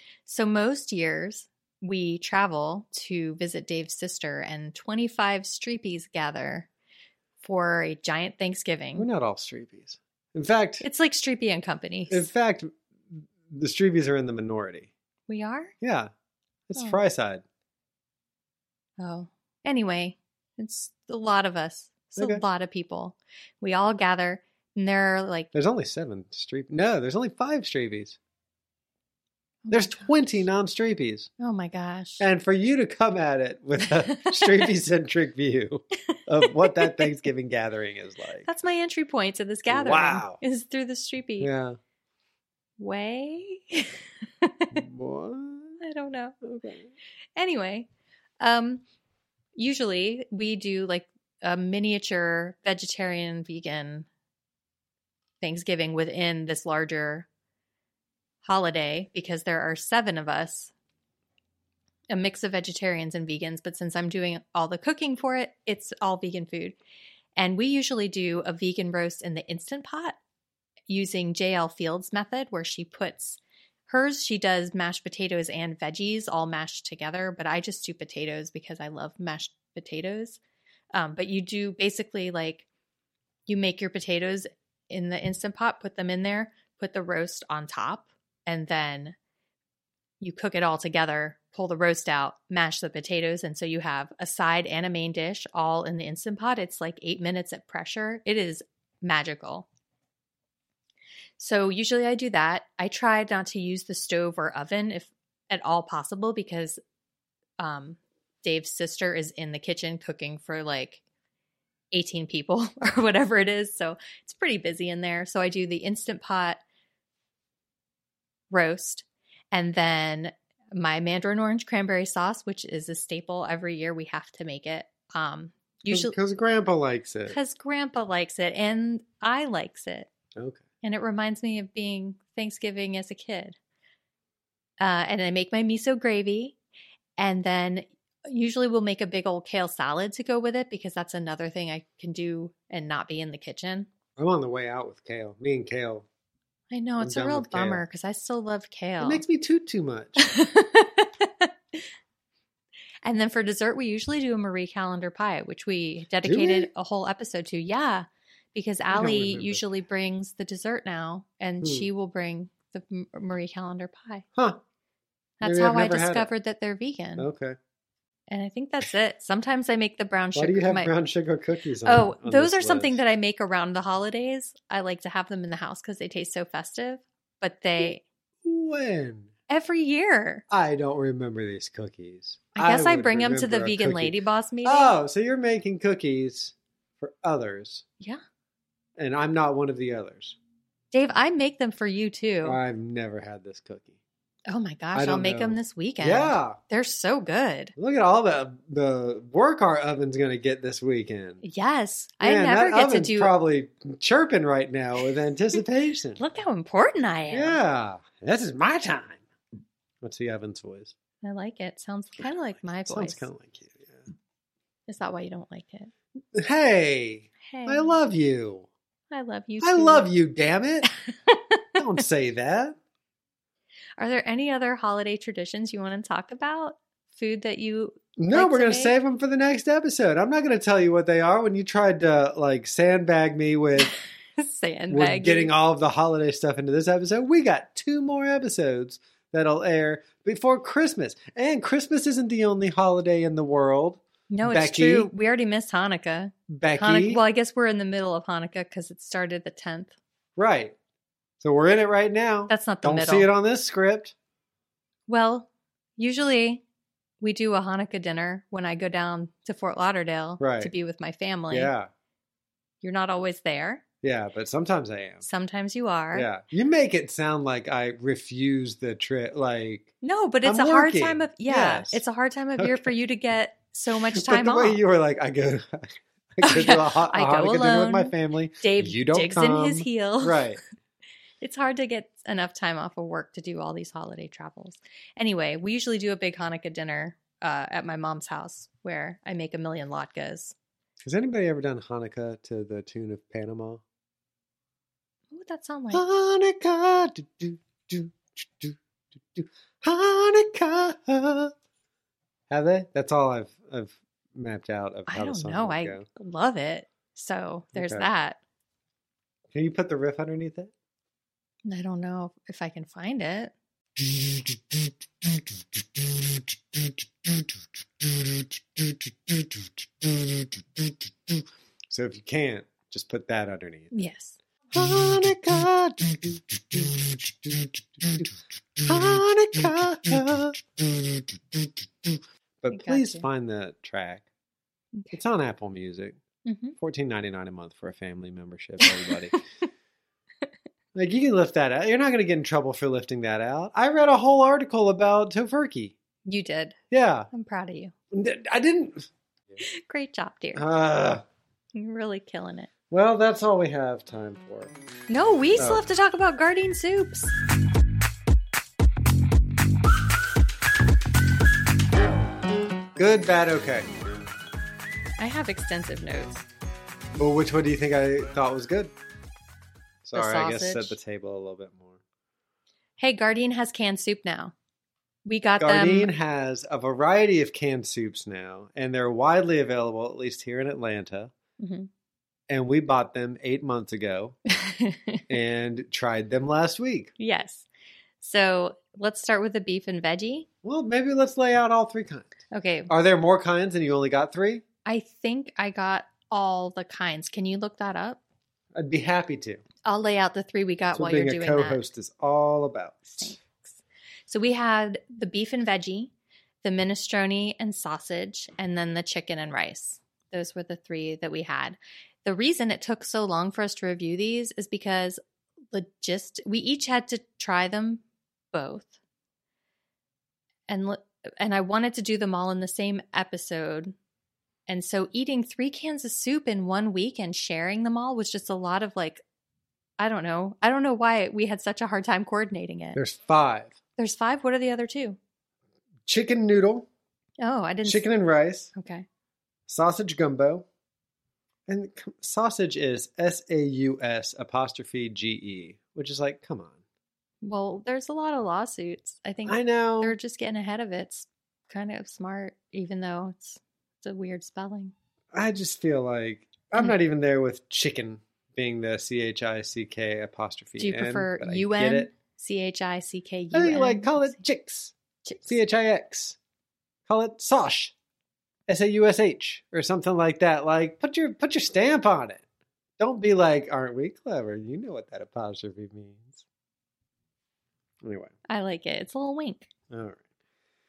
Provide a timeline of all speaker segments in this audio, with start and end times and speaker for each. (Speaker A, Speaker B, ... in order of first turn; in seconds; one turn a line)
Speaker A: 0.2-6.7
Speaker A: 7.4-9.1
Speaker B: 8.9-10.8
Speaker A: 10.8-12.3
Speaker B: 12.1-14.9
Speaker A: 15.3-15.7
Speaker B: 15.8-16.1
Speaker B: 16.7-17.4
Speaker A: 19.0-25.5
Speaker B: 22.2-22.4
Speaker B: 25.5-28.2
Speaker A: 29.6-30.1
Speaker B: 29.7-31.3
Speaker A: 31.4-32.2
Speaker B: 32.2-38.5
Speaker A: 34.1-34.7
Speaker A: 36.4-37.2
Speaker A: 38.4-41.5
Speaker B: 39.7-40.4
Speaker B: 41.4-41.8
Speaker A: 42.8-44.8
Speaker B: 44.7-45.8
Speaker A: 45.8-46.4
Speaker B: 46.4-46.9
Speaker A: 47.4-47.9
Speaker A: 48.4-48.8
Speaker A: 49.5-54.1
Speaker A: 55.4-57.3
Speaker A: 58.4-60.7
Speaker A: 62.1-66.8
Speaker A: 67.3-70.2
Speaker A: 70.9-80.4
Speaker A: 80.9-82.6
Speaker A: 83.5-89.2
Speaker A: 90.2-99.7
Speaker A: 101.4-106.8
Speaker A: 107.6-111.0
Speaker A: 111.9-116.6
Speaker A: 118.5-126.2
Speaker B: 125.9-127.4
Speaker A: 127.3-130.1
Speaker B: 130.3-130.6
Speaker A: 130.8-133.6
Speaker A: 134.8-136.6
Speaker A: 137.2-143.9
Speaker B: 144.2-146.1
Speaker A: 146.7-149.2
Speaker B: 147.0-147.8
Speaker B: 149.0-150.3
Speaker A: 150.2-151.8
Speaker A: 153.0-164.2
Speaker B: 156.2-156.7
Speaker B: 158.9-159.6
Speaker B: 161.6-161.9
Speaker A: 165.4-167.3
Speaker B: 165.4-166.3
Speaker B: 167.2-167.6
Speaker A: 168.3-170.9
Speaker B: 170.3-173.0
Speaker A: 171.8-178.0
Speaker B: 178.4-179.3
Speaker A: 179.5-180.4
Speaker B: 180.5-187.8
Speaker A: 182.6-184.9
Speaker B: 189.0-190.3
Speaker A: 190.9-192.6
Speaker B: 192.4-194.0
Speaker A: 194.5-197.7
Speaker B: 194.9-196.6
Speaker B: 197.8-201.4
Speaker A: 201.4-203.3
Speaker B: 202.2-206.2
Speaker A: 206.2-207.6
Speaker B: 207.3-209.2
Speaker B: 210.0-210.9
Speaker A: 211.2-213.3
Speaker B: 212.8-214.0
Speaker A: 214.9-215.9
Speaker B: 216.3-218.7
Speaker A: 217.5-218.0
Speaker A: 219.1-220.1
Speaker B: 219.6-220.9
Speaker A: 220.8-221.6
Speaker B: 221.8-222.8
Speaker A: 224.0-228.9
Speaker B: 228.2-233.9
Speaker A: 233.8-235.5
Speaker B: 234.9-245.1
Speaker A: 244.3-249.9
Speaker B: 246.5-247.2
Speaker B: 250.3-250.7
Speaker B: 251.4-254.1
Speaker A: 252.5-253.3
Speaker A: 255.1-256.6
Speaker A: 257.2-261.7
Speaker B: 260.4-260.7
Speaker B: 261.5-261.9
Speaker A: 262.8-263.8
Speaker B: 264.0-265.2
Speaker A: 265.2-266.3
Speaker B: 266.1-272.0
Speaker A: 270.0-274.8
Speaker B: 272.6-272.9
Speaker B: 274.1-280.6
Speaker A: 276.4-280.5
Speaker A: 281.4-290.5
Speaker B: 291.0-293.8
Speaker A: 295.3-296.0
Speaker B: 295.9-298.8
Speaker B: 299.3-301.5
Speaker B: 302.5-306.1
Speaker A: 305.1-308.4
Speaker B: 307.7-308.1
Speaker B: 309.5-310.7
Speaker A: 311.6-313.5
Speaker B: 314.0-323.9
Speaker A: 323.9-324.4
Speaker B: 324.7-334.2
Speaker A: 332.7-333.2
Speaker A: 334.9-335.2
Speaker B: 335.1-336.2
Speaker A: 336.4-336.8
Speaker B: 336.8-339.4
Speaker A: 338.8-339.4
Speaker B: 340.9-345.9
Speaker A: 346.2-346.8
Speaker B: 346.9-347.3
Speaker A: 347.3-347.9
Speaker B: 348.1-349.6
Speaker A: 349.6-350.6
Speaker B: 350.5-351.2
Speaker A: 351.7-352.7
Speaker B: 352.9-354.7
Speaker A: 355.1-357.3
Speaker B: 355.6-355.8
Speaker B: 362.9-363.9
Speaker A: 365.2-366.4
Speaker B: 367.1-368.9
Speaker B: 370.0-372.0
Speaker A: 370.1-371.0
Speaker A: 373.0-374.5
Speaker A: 375.2-376.1
Speaker B: 375.6-381.3
Speaker A: 381.6-381.9
Speaker B: 382.5-384.4
Speaker A: 384.5-385.2
Speaker B: 385.3-387.1
Speaker A: 387.2-387.7
Speaker A: 388.2-390.5
Speaker B: 390.6-394.6
Speaker A: 392.5-392.9
Speaker A: 394.8-398.2
Speaker B: 398.7-399.6
Speaker A: 399.8-401.8
Speaker B: 400.9-403.4
Speaker A: 403.1-406.1
Speaker A: 406.6-415.2
Speaker A: 415.7-418.0
Speaker A: 418.5-418.9
Speaker A: 420.7-423.9
Speaker A: 424.7-429.2
Speaker A: 430.0-433.0
Speaker B: 432.9-433.8
Speaker A: 434.0-435.2
Speaker B: 436.1-436.9
Speaker A: 437.4-438.1
Speaker B: 437.8-438.7
Speaker A: 438.7-439.1
Speaker B: 439.7-440.6
Speaker B: 441.7-446.8
Speaker A: 447.4-454.9
Speaker B: 449.4-450.2
Speaker B: 455.3-462.1
Speaker A: 460.8-464.4
Speaker B: 463.5-464.9
Speaker B: 465.4-466.4
Speaker B: 467.1-467.9
Speaker B: 468.7-472.4
Speaker B: 473.0-476.4
Speaker B: 478.0-478.3
Speaker A: 478.5-479.7
Speaker B: 479.9-480.2